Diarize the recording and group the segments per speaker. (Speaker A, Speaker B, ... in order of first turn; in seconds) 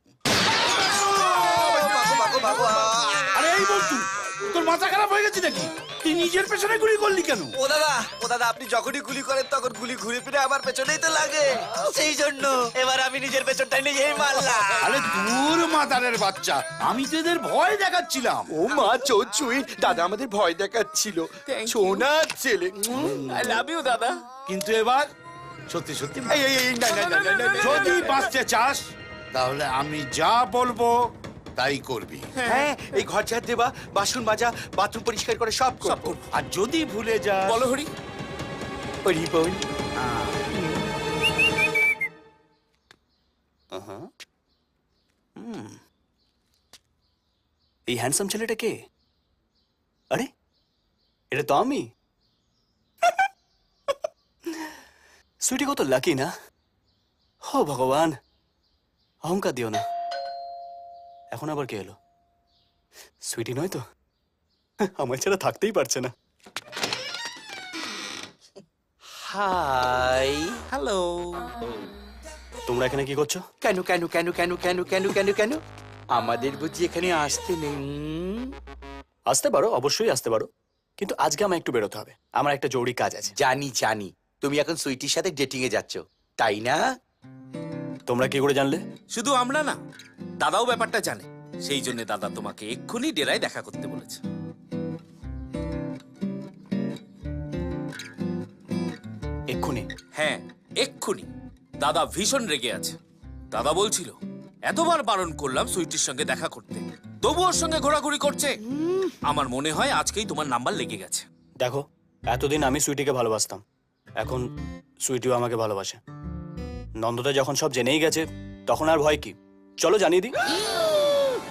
Speaker A: 0.9-3.3, 7.6-14.9
Speaker B: 1.0-2.3, 3.3-7.6, 14.8-18.6, 22.9-23.5, 24.5-25.1, 25.7-26.5, 27.2-28.8, 29.3-30.9, 31.6-32.3, 36.3-37.7, 40.0-40.4
Speaker C: 18.5-23.1, 26.3-28.0, 32.5-36.1, 39.0-39.6, 40.6-40.9, 69.2-70.6, 73.6-75.6, 76.1-78.5, 83.4-86.8, 120.9-121.2
Speaker D: 21.5-22.1, 23.3-24.2, 26.8-28.3, 32.4-33.0, 35.8-36.2, 37.5-37.9, 70.7-71.5, 89.1-89.8, 90.4-94.2, 100.1-101.3, 101.8-102.9, 103.5-108.5, 109.2-111.2
Speaker E: 43.7-44.1, 45.4-45.8, 47.9-48.7, 51.3-51.9, 54.5-54.8, 55.4-56.3, 57.5-58.2, 59.2-59.9, 61.3-62.0, 63.2-63.8, 64.9-66.1, 72.7-73.4, 79.3-83.3, 88.1-88.8, 99.5-99.9, 111.6-113.6, 115.0-116.0, 117.0-120.3